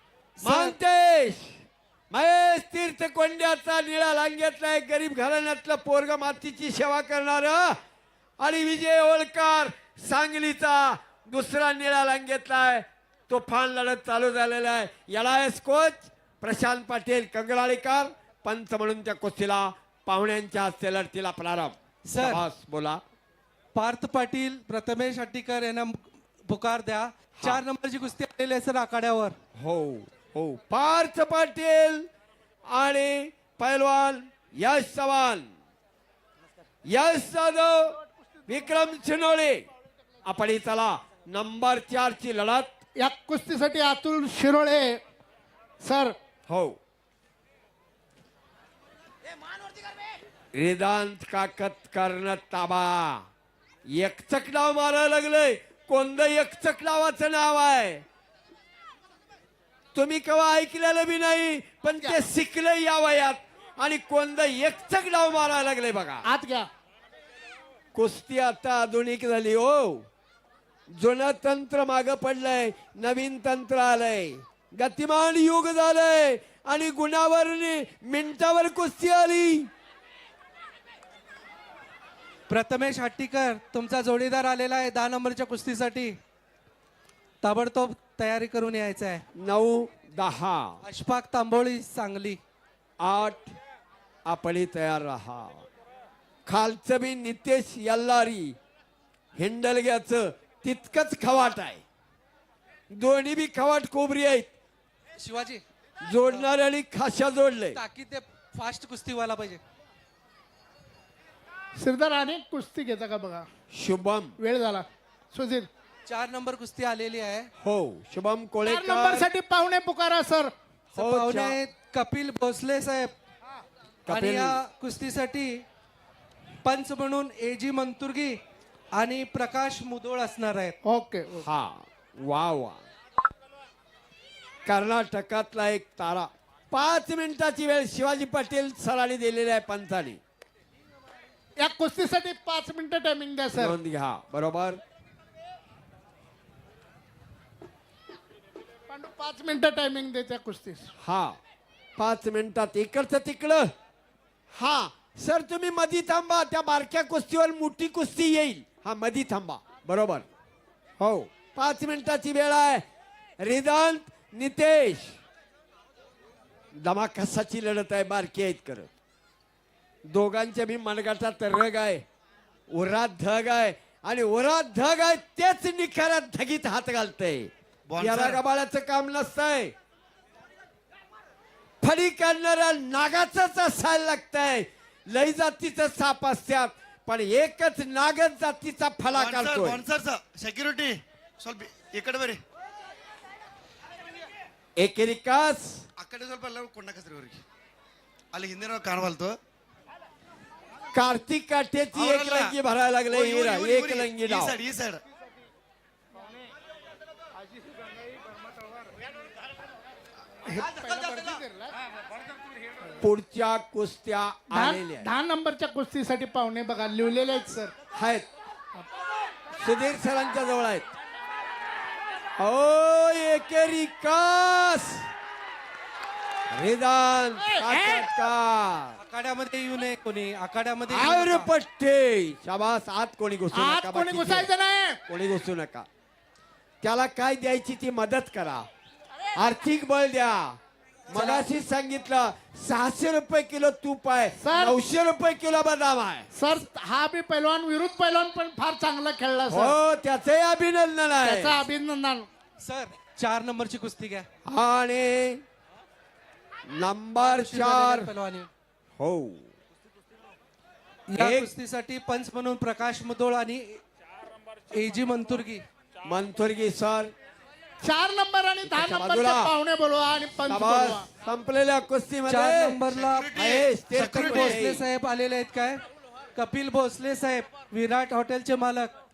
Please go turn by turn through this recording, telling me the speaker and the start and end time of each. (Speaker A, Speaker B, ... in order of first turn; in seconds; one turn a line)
Speaker A: 0.4-0.8
Speaker B: 0.4-1.6
Speaker B: 2.1-7.8
Speaker B: 8.4-23.0
Speaker A: 22.1-22.4
Speaker A: 23.7-29.4
Speaker B: 29.6-32.1
Speaker B: 32.7-35.5
Speaker B: 36.9-37.9
Speaker B: 38.5-39.6
Speaker B: 40.2-42.7
Speaker C: 43.0-45.0
Speaker C: 45.8-46.1
Speaker B: 46.5-46.8
Speaker B: 50.5-53.2
Speaker B: 53.9-58.0
Speaker B: 59.9-66.2
Speaker C: 66.2-66.7
Speaker B: 67.9-70.0
Speaker B: 70.9-79.7
Speaker A: 82.5-86.2
Speaker A: 87.4-89.2
Speaker B: 89.4-90.8
Speaker A: 90.8-92.4
Speaker B: 93.0-93.5
Speaker B: 94.2-95.6
Speaker B: 96.5-98.5
Speaker B: 99.4-101.8
Speaker B: 102.9-104.5
Speaker A: 105.2-105.6
Speaker B: 106.1-107.8
Speaker A: 107.7-109.6
Speaker C: 111.8-113.5
Speaker B: 113.7-114.3
Speaker C: 114.4-115.7
Speaker A: 116.0-117.5
Speaker B: 117.6-119.3
Speaker C: 118.6-120.5
Speaker A: 120.9-123.1
Speaker B: 121.0-121.6
Speaker B: 124.0-124.6
Speaker A: 124.1-125.6
Speaker A: 126.6-128.4
Speaker A: 128.9-130.8
Speaker C: 130.8-131.5
Speaker B: 131.4-132.8
Speaker B: 134.7-140.2
Speaker C: 141.6-143.8
Speaker B: 143.5-144.8
Speaker C: 148.9-150.9
Speaker B: 151.0-151.4
Speaker B: 152.0-153.7
Speaker B: 154.5-160.3
Speaker B: 161.0-162.8
Speaker B: 163.4-165.2
Speaker B: 166.8-168.9
Speaker B: 170.1-172.0
Speaker B: 172.7-179.7
Speaker D: 177.9-178.4
Speaker B: 181.8-189.8
Speaker D: 189.1-192.4
Speaker B: 194.8-195.8
Speaker D: 196.0-197.4
Speaker D: 198.3-199.4
Speaker B: 200.9-204.6
Speaker D: 201.9-202.6
Speaker D: 203.1-205.0
Speaker C: 210.5-211.8
Speaker B: 213.0-215.1
Speaker C: 214.5-217.7
Speaker B: 217.9-218.2
Speaker B: 219.6-220.8
Speaker B: 222.4-225.1
Speaker B: 226.5-229.0
Speaker C: 227.4-228.1
Speaker A: 229.0-231.5
Speaker B: 230.9-234.5
Speaker C: 233.5-235.0
Speaker B: 235.1-235.9
Speaker B: 236.8-238.6
Speaker B: 239.4-240.6
Speaker B: 241.1-246.3
Speaker A: 241.1-241.4
Speaker C: 244.4-244.8
Speaker C: 246.3-249.8
Speaker B: 249.5-251.6
Speaker C: 251.2-252.3
Speaker A: 252.6-254.2
Speaker B: 254.5-255.4
Speaker B: 256.7-258.1
Speaker A: 257.2-258.5
Speaker B: 259.0-259.4
Speaker A: 261.1-263.8
Speaker B: 261.1-261.5
Speaker A: 264.7-265.6
Speaker B: 266.1-267.1
Speaker C: 267.8-271.1
Speaker B: 268.6-269.5
Speaker B: 270.4-274.8
Speaker A: 272.3-275.8
Speaker D: 272.9-274.6
Speaker A: 276.4-278.9